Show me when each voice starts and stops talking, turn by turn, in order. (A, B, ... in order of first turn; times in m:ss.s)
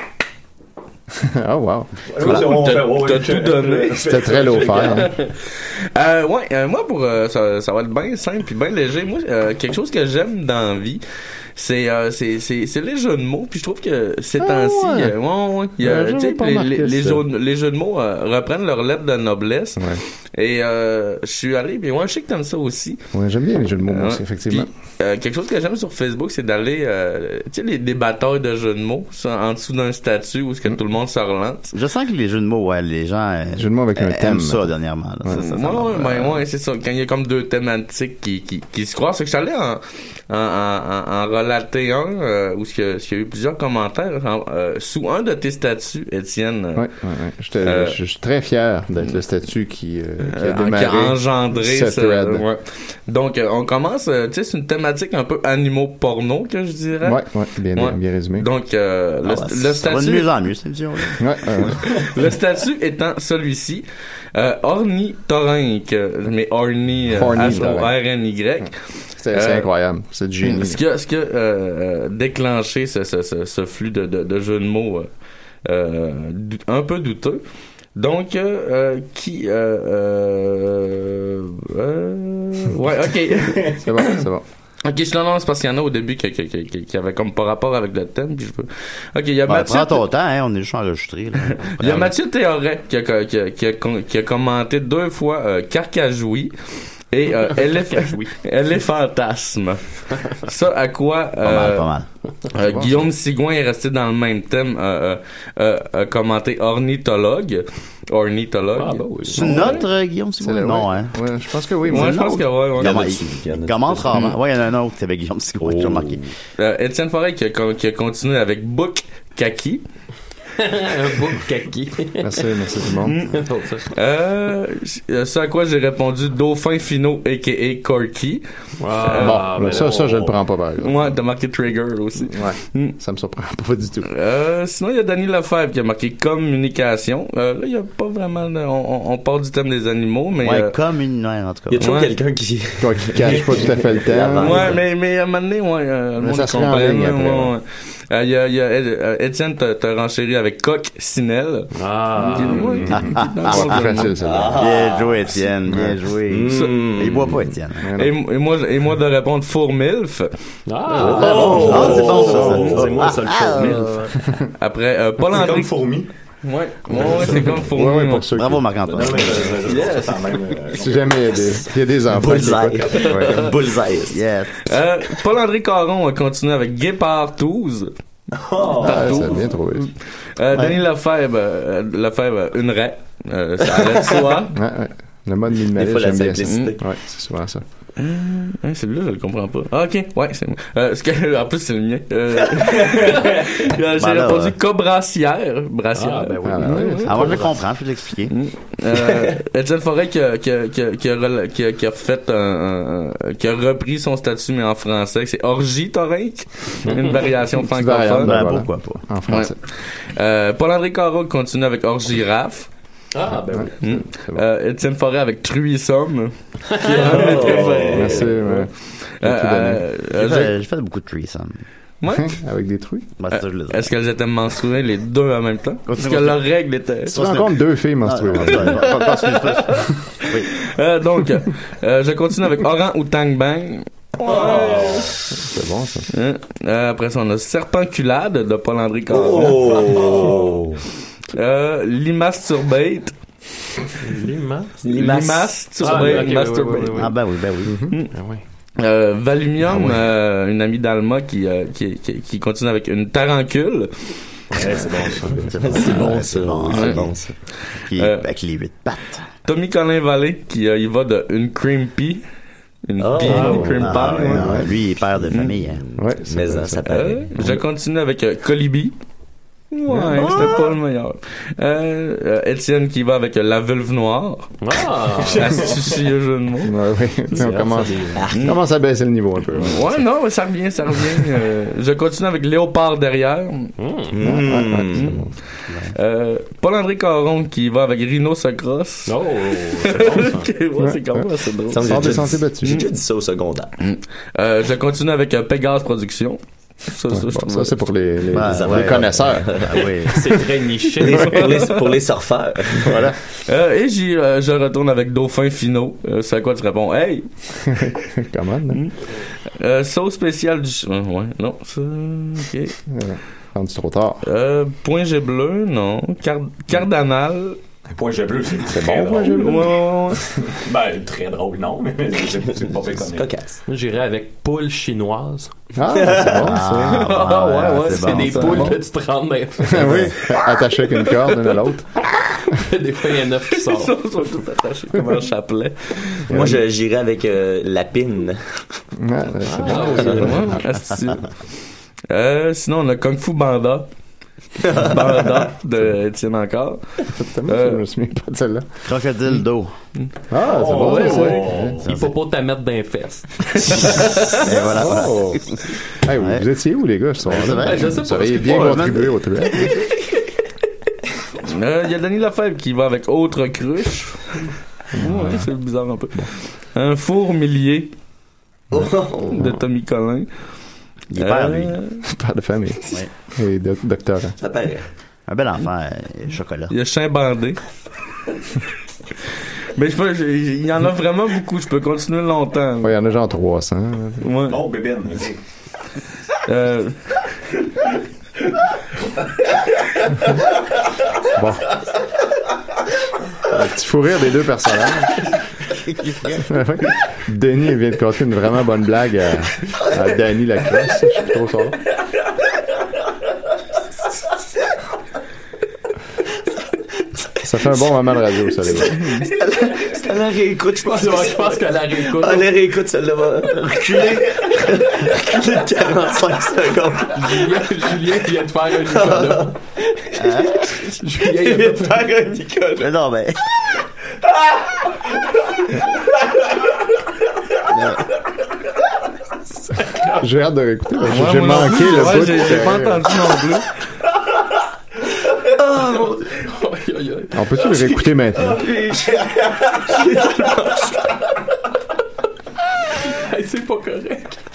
0:01.2-0:02.4 A
0:02.1-0:05.1 B
0:02.2-0:04.1 C
0:04.0-0:05.1 A
0:04.8-0:11.0 C
0:11.6-0:23.0 C
0:14.4-0:15.2 A
0:15.8-0:17.2 A
0:19.8-0:20.0 A
0:23.1-0:24.7 A
0:23.9-0:31.7 C
0:31.7-0:36.3 D
0:33.6-0:34.7 A
0:35.2-0:35.5 A
0:35.3-0:46.8 C
0:46.8-0:52.4 A
0:47.6-0:48.0 C
0:50.2-0:57.2 C
0:57.0-0:58.5 A
0:57.8-1:00.3 C
0:59.2-1:01.7 D
1:01.2-1:01.8 A
1:01.9-1:08.8 C
1:07.1-1:07.9 A
1:09.2-1:10.8 A
1:09.3-1:09.7 C
1:10.4-1:15.1 C
1:15.6-1:17.4 C
1:18.0-1:24.2 C
1:23.7-1:24.4 A
1:24.8-1:30.0 C
1:29.5-1:32.1 D
1:31.8-1:36.5 C
1:37.1-1:41.9 C
1:37.9-1:38.3 E
1:41.4-1:42.1 D
1:42.5-1:49.8 C
1:42.5-1:43.1 A
1:48.8-1:49.8 E
1:49.3-1:51.1 D
1:50.4-1:52.3 A
1:51.9-1:56.2 D
1:51.9-1:53.1 C
1:52.8-1:54.4 F
1:55.6-1:56.2 F
1:56.6-1:59.8 C
2:00.6-2:02.5 E
2:02.2-2:03.2 A
2:03.2-2:03.9 E
2:03.9-2:08.4 C
2:08.8-2:10.3 E
2:09.0-2:09.6 C
2:09.2-2:11.1 A
2:09.8-2:10.2 B
2:10.8-2:13.0 C
2:12.3-2:14.1 A
2:14.1-2:20.8 C
2:20.4-2:22.0 D
2:21.7-2:24.8 F
2:21.8-2:22.1 C
2:22.8-2:24.8 A
2:24.4-2:31.7 C
2:26.2-2:27.5 A
2:31.8-2:32.9 E
2:32.2-2:34.2 C
2:32.9-2:33.9 D
2:33.2-2:34.6 A
2:34.2-2:35.5 F
2:34.6-2:37.9 D
2:35.7-2:35.9 A
2:36.3-2:37.4 F
2:36.5-2:36.9 B
2:37.8-2:38.1 A
2:38.0-2:40.4 C
2:40.7-2:44.1 E
2:41.0-2:43.1 B
2:41.1-2:42.6 F
2:41.1-2:42.7 A
2:41.2-2:44.1 D
2:41.5-2:41.9 C
2:44.6-2:45.8 C
2:45.2-2:46.1 B
2:46.4-2:48.3 C
2:46.9-2:47.7 B
2:47.6-2:48.7 A
2:48.4-2:49.6 D
2:48.8-2:51.6 B
2:49.7-2:50.2 C
2:50.7-2:52.8 A
2:52.1-2:54.2 F
2:52.2-2:53.5 D
2:53.0-2:53.5 C
2:54.1-2:54.6 D
2:54.6-2:57.9 C
2:58.3-2:59.5 B
2:58.8-3:04.5 C
2:58.8-2:59.9 A
3:00.5-3:00.8 D
3:03.8-3:04.2 F
3:04.5-3:07.6 A
3:05.7-3:06.8 F
3:06.4-3:06.7 C
3:08.0-3:17.5 C
3:14.0-3:14.6 D
3:15.9-3:16.9 E
3:16.4-3:17.3 A
3:17.0-3:18.3 D
3:18.3-3:28.4 C
3:27.6-3:29.6 A
3:28.2-3:29.0 D
3:29.3-3:32.7 C
3:33.1-3:33.8 E
3:33.5-3:34.4 A
3:33.8-3:38.6 C
3:36.8-3:37.6 E
3:37.0-3:39.9 A
3:37.1-3:38.3 F
3:37.2-3:37.9 B
3:39.2-3:40.5 C
3:40.1-3:41.6 D
3:42.0-3:42.3 C
3:42.1-3:43.1 A
3:43.2-3:43.9 D
3:43.3-3:47.2 C
3:45.9-3:46.4 D
3:47.1-3:50.5 D
3:47.1-3:48.9 A
3:48.6-3:55.1 C
3:54.2-3:55.1 B
3:55.4-3:56.1 A
3:56.1-4:00.0 C
3:59.1-4:00.8 F
3:59.9-4:00.5 B
4:01.3-4:03.1 C
4:04.0-4:04.7 E
4:04.8-4:06.4 F
4:04.8-4:07.1 C
4:05.8-4:07.2 E
4:07.0-4:07.9 D
4:07.7-4:08.0 A
4:08.1-4:08.4 E
4:08.8-4:14.1 C
4:09.7-4:10.0 D
4:14.6-4:15.5 E
4:14.7-4:15.3 B
4:15.5-4:19.3 D
4:15.6-4:17.3 F
4:16.7-4:17.0 C
4:17.8-4:18.2 C
4:19.5-4:22.2 C
4:22.9-4:24.6 C
4:23.0-4:24.2 F
4:23.2-4:23.7 E
4:23.3-4:25.8 D
4:24.3-4:24.7 A
4:25.3-4:25.6 C
4:25.8-4:27.3 F
4:26.0-4:27.6 A
4:26.9-4:29.0 C
4:29.7-4:34.6 C
4:29.9-4:30.5 A
4:34.6-4:35.8 E
4:35.2-4:36.7 C
4:36.6-4:40.0 A
4:37.3-4:38.3 E
4:38.1-4:38.5 F
4:39.5-4:43.8 C
4:43.8-4:44.2 E
4:44.1-4:45.2 F
4:44.2-4:45.3 A
4:44.9-4:45.2 C
4:45.7-4:45.9 D
4:45.9-4:52.9 C
4:49.1-4:50.6 E
4:50.8-4:51.2 A
4:51.7-4:53.7 F
4:51.8-4:52.8 A
4:53.8-4:57.9 C
4:57.1-4:59.9 A
4:58.3-5:00.3 D
4:58.4-4:59.8 F
5:00.0-5:01.7 E
5:01.0-5:03.1 F
5:01.1-5:01.9 C
5:02.8-5:03.2 A
5:03.5-5:07.3 C
5:07.6-5:08.8 A
5:08.7-5:12.8 C
5:12.9-5:14.2 A
5:14.2-5:17.6 C
5:17.9-5:23.3 B
5:18.7-5:19.7 A
5:19.2-5:20.2 C
5:23.2-5:23.6 F
5:23.7-5:25.5 E
5:25.8-5:27.2 A
5:26.2-5:28.8 D
5:26.9-5:28.7 C
5:27.8-5:30.3 E
5:28.4-5:28.8 A
5:29.7-5:31.9 A
5:29.8-5:30.1 D
5:32.5-5:33.9 E
5:33.6-5:36.3 C
5:36.3-5:36.6 A
5:36.3-5:38.4 F
5:39.0-5:40.6 A
5:39.5-5:40.6 E
5:39.9-5:41.3 C
5:42.1-5:43.9 C
5:44.7-5:46.9 C
5:47.1-5:48.7 A
5:47.5-5:47.8 C
5:48.9-5:49.7 D
5:50.3-5:51.8 A
5:50.4-5:51.9 B
5:50.7-5:51.4 C
5:50.7-5:53.8 E
5:51.8-5:52.1 D
5:54.3-5:55.6 D
5:54.7-5:55.4 A
5:56.0-5:59.7 A
5:56.2-5:56.4 D
5:57.2-5:59.1 D
5:57.5-5:59.0 E
6:01.4-6:07.9 C
6:04.9-6:05.5 A
6:08.7-6:09.3 F
6:08.7-6:09.6 A
6:09.1-6:10.3 C
6:11.1-6:11.8 D
6:11.2-6:12.0 C
6:12.1-6:14.4 A
6:14.4-6:14.8 F
6:15.3-6:16.7 D
6:16.7-6:17.6 C
6:19.8-6:22.9 C
6:22.8-6:24.3 A
6:24.2-6:24.6 C
6:24.4-6:25.4 B
6:26.5-6:27.0 C
6:31.4-6:31.7 A
6:33.5-6:35.3 A
6:35.9-6:36.5 D
6:36.4-6:41.8 A
6:47.4-6:49.3 A
6:48.6-6:57.6 F
6:50.8-6:52.5 E
6:54.0-6:54.2 D
6:57.1-6:59.6 E
6:58.9-7:02.9 F
7:00.1-7:00.7 D
7:00.8-7:02.1 E
7:02.8-7:03.4 D
7:07.7-7:08.0 D
7:10.2-7:13.0 A
7:11.0-7:13.7 C
7:15.6-7:16.2 F
7:15.8-7:18.0 E
7:17.3-7:18.6 A
7:18.4-7:21.1 F
7:23.0-7:24.4 E